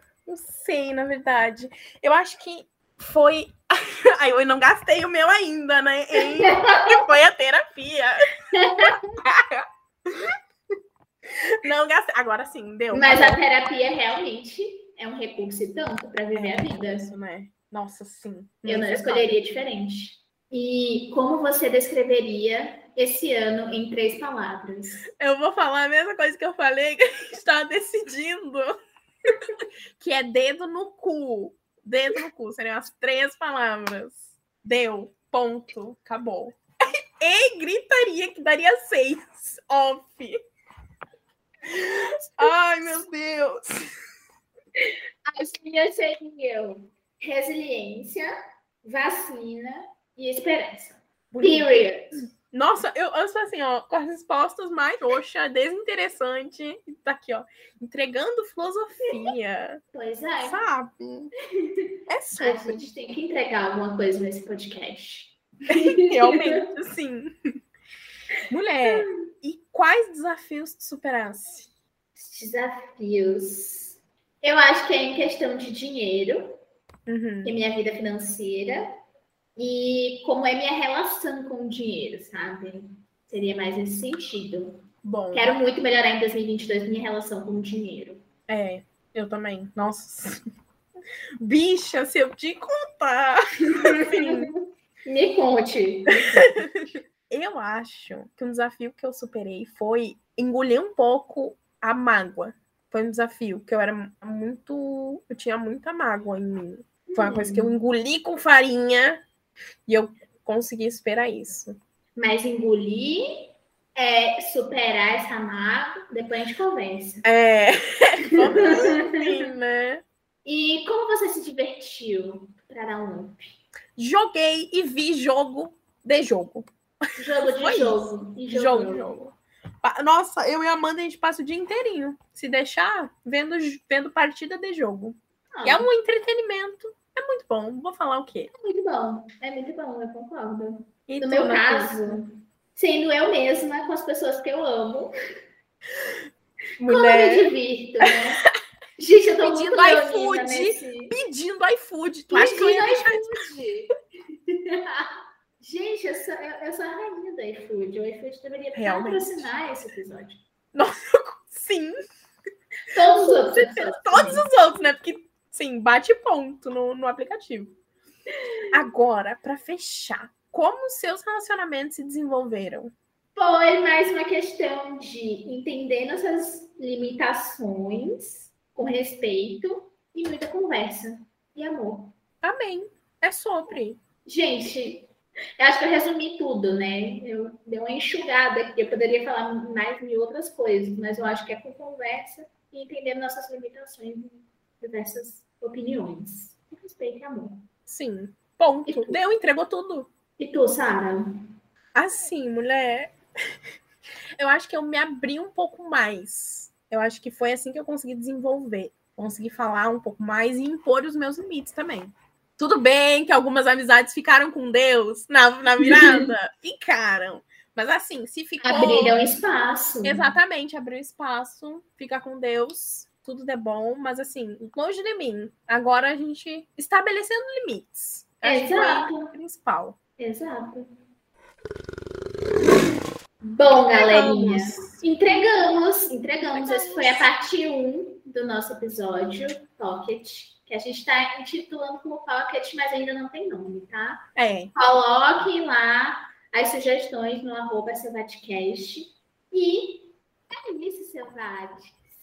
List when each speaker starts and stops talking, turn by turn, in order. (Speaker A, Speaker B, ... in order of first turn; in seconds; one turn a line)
Speaker A: 0.3-8.2
Speaker B: 6.4-6.9
Speaker B: 8.5-9.1
Speaker A: 9.2-10.3
Speaker A: 11.6-13.4
Speaker B: 12.9-17.1
Speaker A: 16.3-19.4
Speaker B: 18.6-25.1
Speaker A: 25.2-28.7
Speaker A: 30.0-36.6
Speaker A: 37.2-40.4
Speaker A: 41.7-43.8
Speaker B: 45.3-48.3
Speaker B: 48.8-52.2
Speaker A: 51.3-51.8
Speaker A: 52.5-59.8
Speaker B: 59.9-60.6
Speaker A: 60.4-61.3
Speaker A: 62.1-62.8
Speaker B: 62.4-66.6
Speaker A: 65.7-67.3
Speaker A: 68.5-71.7
Speaker B: 72.2-76.6
Speaker A: 77.1-77.6
Speaker B: 77.4-79.0
Speaker B: 79.6-88.2
Speaker A: 85.0-85.5
Speaker A: 88.5-90.4
Speaker A: 91.4-94.5
Speaker B: 93.7-96.6
Speaker A: 97.3-109.3
Speaker B: 107.1-107.7
Speaker A: 109.9-111.8
Speaker B: 112.2-117.2
Speaker A: 117.2-120.0
Speaker B: 120.5-123.6
Speaker A: 124.0-138.5
Speaker B: 127.2-129.1
Speaker B: 135.5-135.9
Speaker B: 138.5-145.1
Speaker A: 141.1-142.2
Speaker A: 146.8-147.5
Speaker B: 146.9-148.4
Speaker B: 149.0-151.2
Speaker A: 149.4-153.3
Speaker B: 152.3-153.9
Speaker B: 154.5-160.4
Speaker A: 158.8-159.5
Speaker A: 160.7-161.9
Speaker B: 162.9-164.4
Speaker A: 163.1-167.8
Speaker A: 168.7-172.9
Speaker B: 173.3-182.2
Speaker A: 182.4-184.0
Speaker B: 184.2-197.7
Speaker A: 197.9-200.1
Speaker B: 198.9-199.2
Speaker B: 200.4-201.2
Speaker A: 201.9-203.2
Speaker A: 204.4-219.2
Speaker B: 215.8-216.3
Speaker B: 218.6-220.3
Speaker A: 220.0-230.0
Speaker B: 228.4-229.3
Speaker B: 230.2-230.9
Speaker B: 233.4-252.0
Speaker A: 233.8-235.0
Speaker A: 236.5-237.3
Speaker A: 244.4-244.7